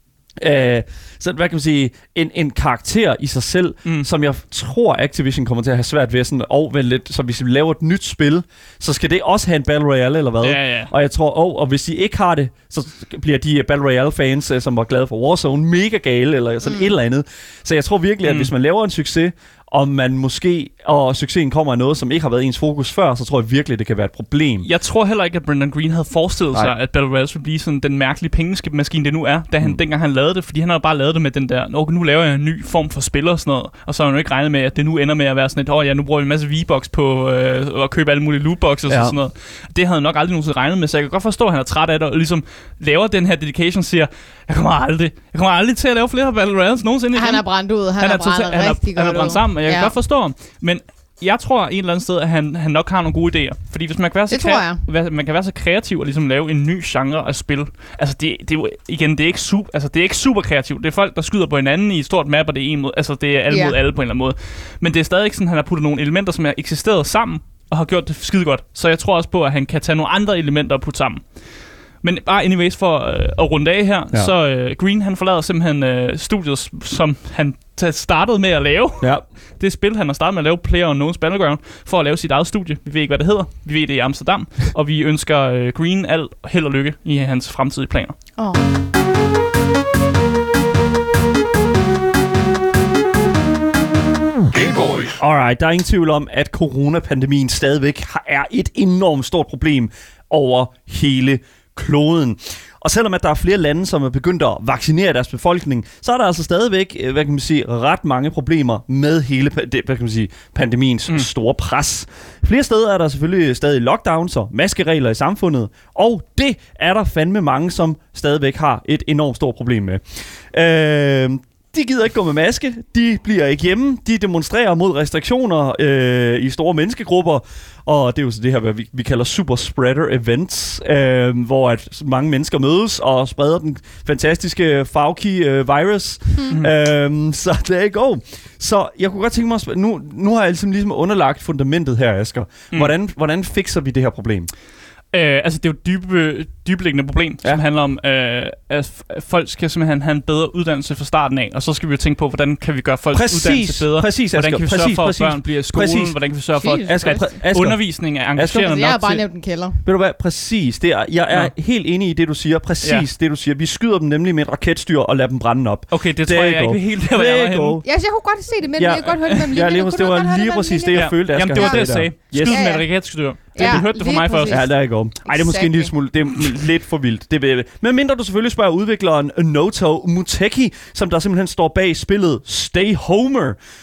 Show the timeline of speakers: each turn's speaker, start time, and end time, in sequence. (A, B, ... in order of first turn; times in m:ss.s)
0:00.4-0:24.7 A
0:10.4-0:10.9 B
0:16.6-0:16.9 C
0:18.2-0:18.5 B
0:24.6-1:11.4 B
0:38.9-0:39.2 A
0:47.2-0:50.0 C
0:54.3-0:54.8 C
1:03.5-1:03.8 C
1:12.0-1:28.2 B
1:19.0-1:19.3 A
1:28.4-1:28.6 C
1:35.2-2:24.5 A
2:25.1-2:39.2 B
2:33.1-2:36.2 A
2:36.6-2:37.3 C
2:36.9-2:38.7 A
2:38.6-2:39.8 C
2:39.8-2:47.8 A
2:45.9-2:47.8 B
2:47.8-2:55.9 C
2:48.8-2:52.7 A
2:50.9-2:54.6 B
2:53.6-2:53.9 A
2:54.5-3:03.6 A